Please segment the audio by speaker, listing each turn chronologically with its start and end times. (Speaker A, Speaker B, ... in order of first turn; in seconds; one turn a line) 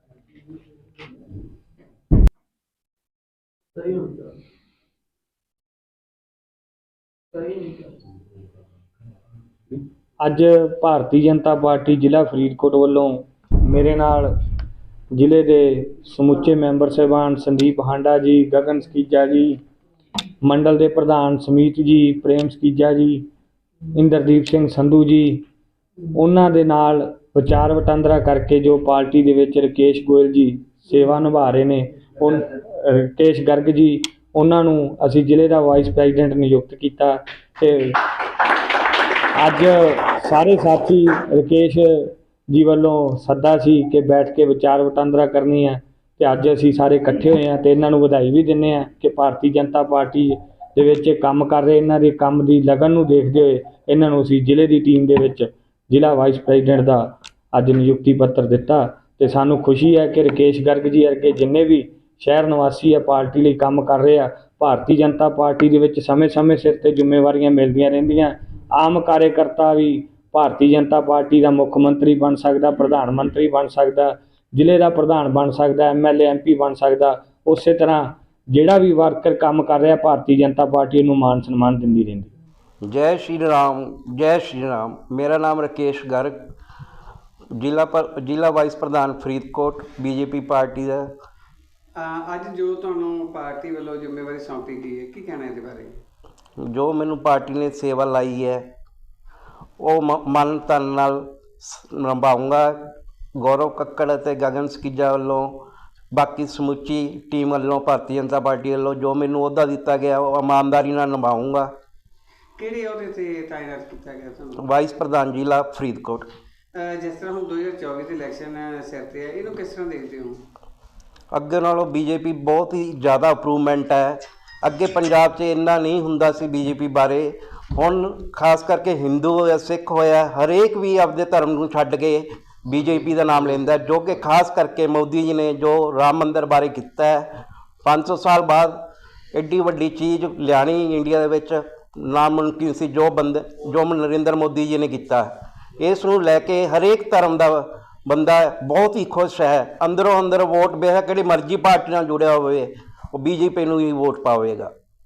Speaker A: 10.2-14.3
Speaker A: 15.1-19.6
Speaker A: 20.4-23.2
Speaker A: 23.9-25.4
Speaker A: 26.1-38.0
Speaker A: 39.3-82.3
Speaker B: 82.8-86.3
Speaker B: 87.6-91.1
Speaker C: 92.0-95.9
Speaker B: 96.6-98.6
Speaker B: 99.8-102.7
Speaker B: 103.4-111.7
Speaker C: 112.6-114.6
Speaker B: 114.6-116.3
Speaker C: 116.7-120.4
Speaker B: 121.3-137.3
Speaker B: 137.8-138.8
Speaker B: 139.3-154.7